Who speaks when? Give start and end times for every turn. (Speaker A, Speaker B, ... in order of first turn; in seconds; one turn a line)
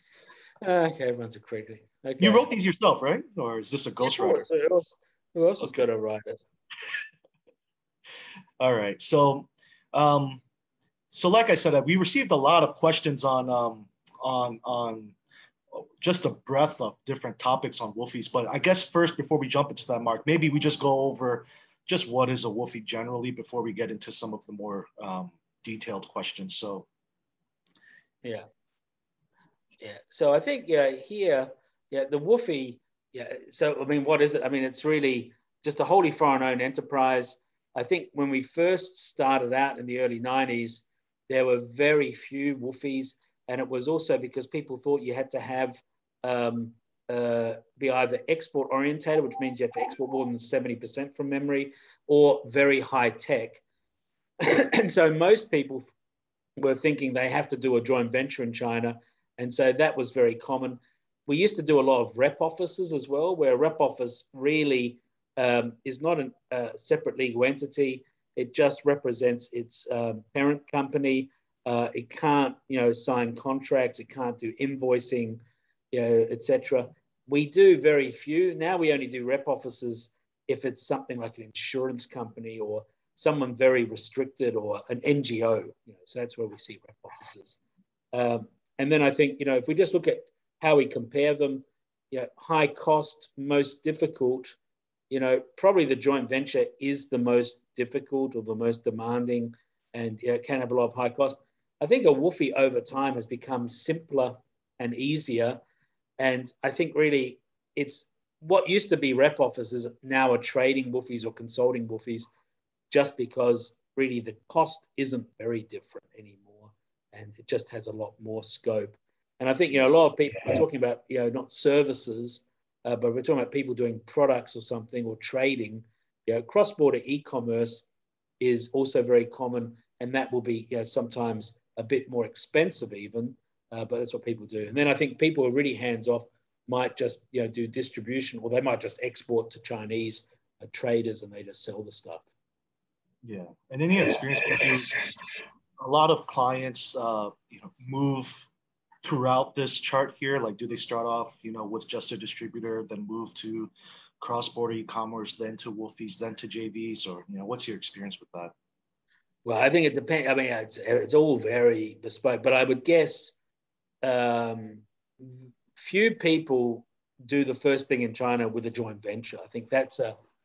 Speaker A: 0.6-2.5
Speaker B: 2.2-4.5
Speaker A: 4.0-6.4
Speaker B: 8.6-10.4
Speaker B: 11.1-15.2
Speaker B: 15.7-26.9
Speaker A: 29.8-53.6
Speaker A: 54.4-55.9
Speaker A: 56.6-87.6
Speaker A: 88.1-94.5
Speaker A: 95.1-105.6
Speaker A: 106.2-112.3
Speaker A: 112.9-127.9
Speaker A: 128.4-142.2
Speaker B: 143.2-145.1
Speaker B: 145.8-148.5
Speaker B: 149.0-158.5
Speaker A: 159.4-163.4
Speaker A: 164.0-170.2